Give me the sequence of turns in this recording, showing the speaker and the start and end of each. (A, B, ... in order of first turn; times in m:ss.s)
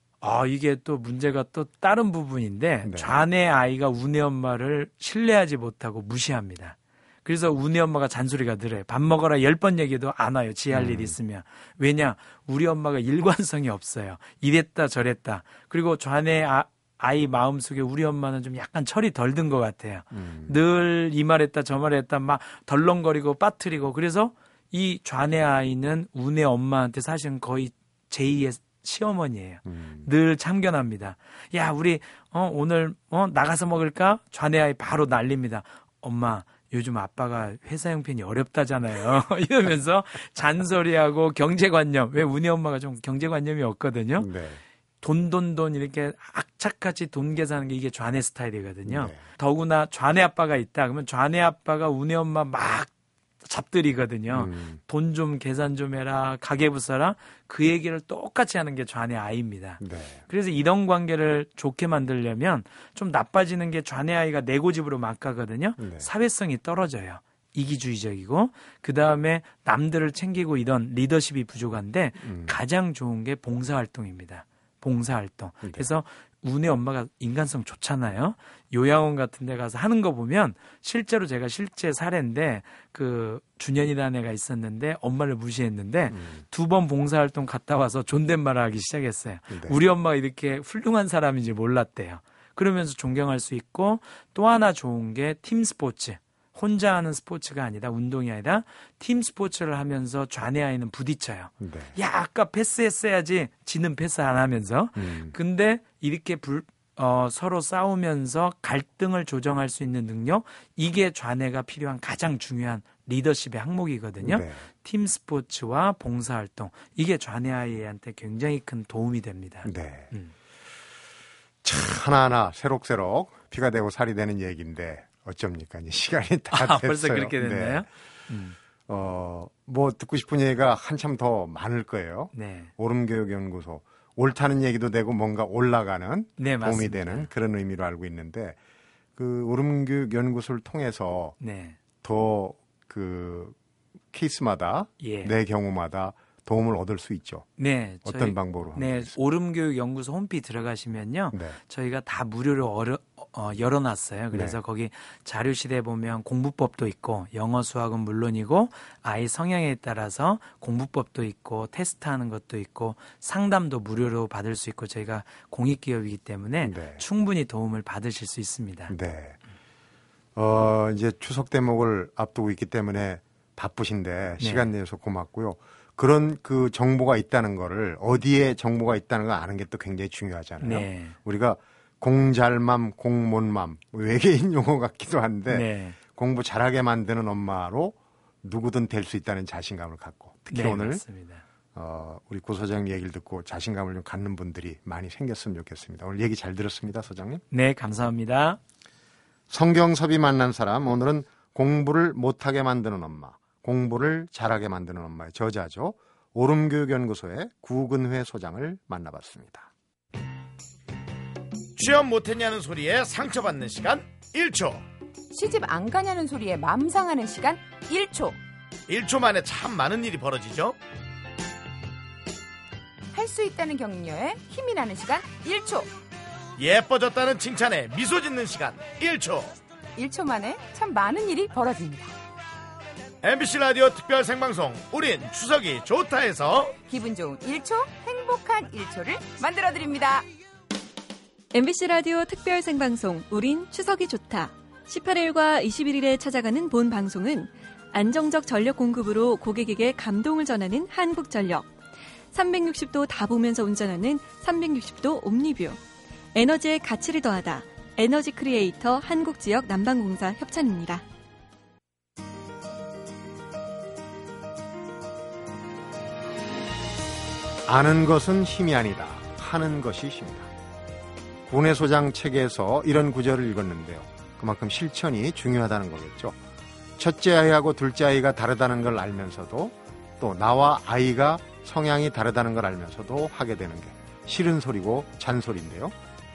0:00.2-0:44.3 A
0:02.8-0:03.1 B
0:10.7-0:11.1 B
0:20.1-0:20.6 B
0:29.6-0:30.1 B
0:44.2-0:44.6 B
0:45.0-0:52.9 A
0:48.8-0:49.2 B
0:53.4-2:00.3 A
0:54.3-0:54.8 B
0:59.8-1:00.2 B
1:05.8-1:06.1 B
1:12.2-1:12.6 B
1:15.6-1:15.9 B
1:26.1-1:26.4 B
1:29.5-1:29.8 B
1:41.6-1:41.9 B
1:45.0-1:45.4 B
1:54.2-1:54.6 B
1:59.6-2:00.1 B
2:01.6-2:07.9 B
2:06.5-2:08.6 A
2:08.9-2:18.6 B
2:12.3-2:12.7 A
2:16.4-2:17.3 A
2:19.2-2:21.4 B
2:21.4-2:21.8 A
2:22.0-2:23.6 B
2:24.1-2:27.5 B
2:25.0-2:25.3 A
2:27.6-2:48.9 A
2:28.0-2:29.2 B
2:31.3-2:31.6 B
2:34.3-2:34.6 B
2:46.6-2:47.0 B
2:48.9-2:49.4 B
2:50.3-3:11.0 B
2:54.4-2:54.7 A
3:00.6-3:01.2 A
3:05.5-3:06.0 A
3:10.5-3:11.4 A
3:11.7-3:17.4 B
3:17.5-3:18.6 A
3:19.5-3:29.7 B
3:31.8-3:34.8 C
3:35.3-3:38.4 D
3:38.9-3:40.8 C
3:43.1-3:45.9 D
3:46.6-3:49.6 C
3:50.0-3:52.1 D
3:53.2-3:56.7 C
3:56.9-4:00.3 D
4:01.5-4:11.7 E
4:12.3-4:15.8 E
4:16.3-4:21.0 E
4:27.6-4:30.5 B
4:31.4-4:36.4 B
4:37.0-4:45.9 B